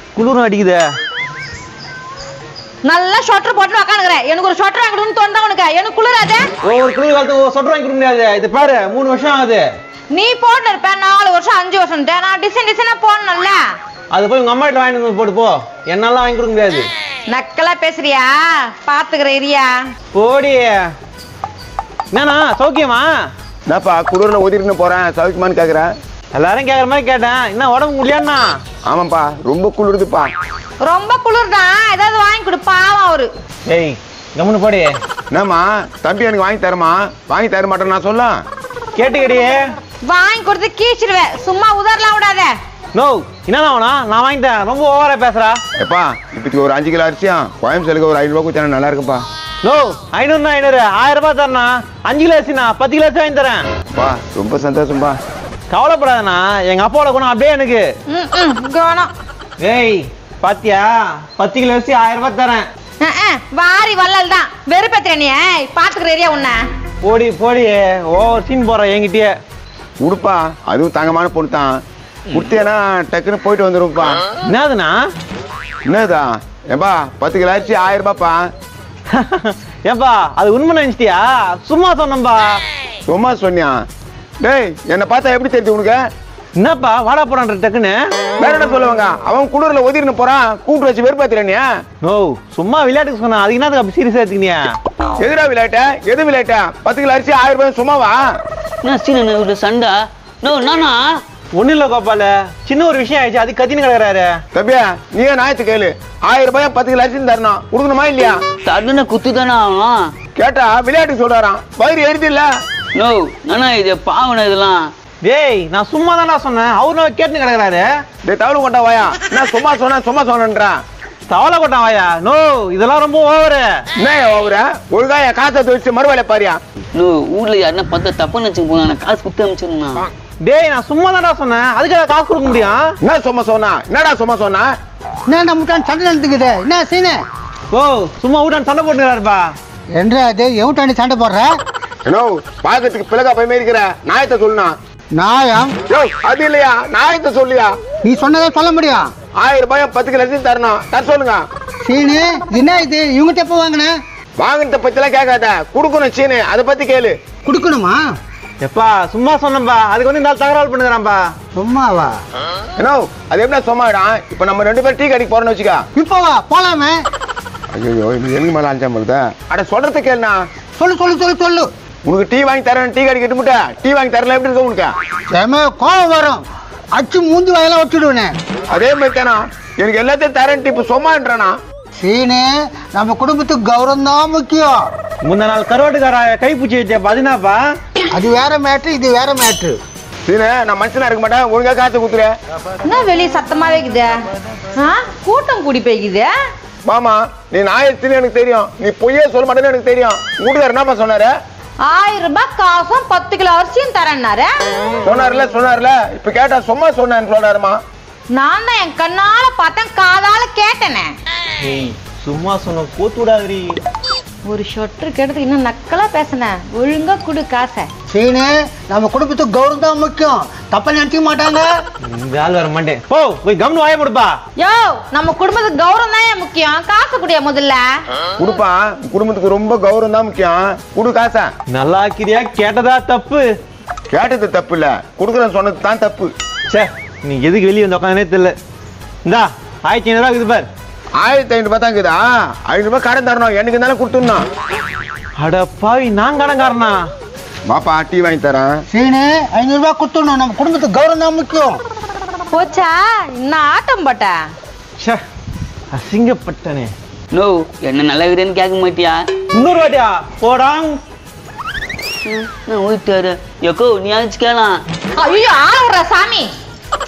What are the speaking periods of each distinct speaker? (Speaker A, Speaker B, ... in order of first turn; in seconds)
Speaker A: 0.2-0.8, 6.6-9.7, 14.1-16.9, 20.1-20.9, 22.1-23.1, 26.3-28.5, 33.7-35.0, 39.0-39.6, 43.0-45.6, 49.6-53.6, 55.7-57.9, 59.6-62.7, 67.0-69.3, 74.5-75.0, 79.1-82.6, 86.6-88.0, 92.0-94.6, 101.6-104.4, 115.2-117.9, 121.3-123.7, 130.4-132.8, 137.7-139.5, 158.6-161.2, 185.2-187.6, 211.6-213.8, 222.1-224.3, 231.7-233.4, 236.7-238.6, 239.2-240.7, 245.4-247.0, 255.9-256.9, 259.5-261.0
Speaker B: 2.8-6.5, 10.1-13.6, 17.3-19.7, 30.8-33.3, 40.0-42.5, 58.1-59.1, 63.0-66.6, 192.8-194.1, 194.8-196.3, 201.9-204.5, 208.3-211.1, 214.5-217.9, 224.6-227.8, 252.5-254.4, 265.2-266.5
Speaker C: 23.7-25.9, 28.9-30.3, 35.3-38.4, 45.8-49.2, 54.0-55.2, 70.0-71.8, 72.3-74.2, 75.8-78.5, 83.1-83.7, 84.4-86.1, 88.4-91.8, 95.2-98.2, 104.5-108.4, 110.4-112.5, 118.2-120.8, 124.0-126.6, 133.0-134.7, 142.1-144.8, 145.9-147.8, 149.4-151.4, 154.4-157.2, 162.8-165.8, 167.7-170.4, 172.1-174.9, 178.7-181.6, 190.2-192.3, 196.8-201.3, 205.0-207.8, 228.4-231.5, 234.1-236.3, 241.2-244.5, 247.7-248.8
Speaker D: 98.8-101.0, 108.7-110.0, 113.0-114.9, 127.0-130.1, 257.3-259.2, 262.2-264.8
Speaker E: 135.3-137.2, 139.9-141.6, 145.2-145.8, 148.0-149.1, 151.8-153.9, 157.4-158.1, 161.6-162.2, 165.9-166.9, 170.8-171.7, 175.3-176.4, 176.9-178.3, 182.0-184.8, 188.1-189.8, 218.1-221.7, 248.9-251.8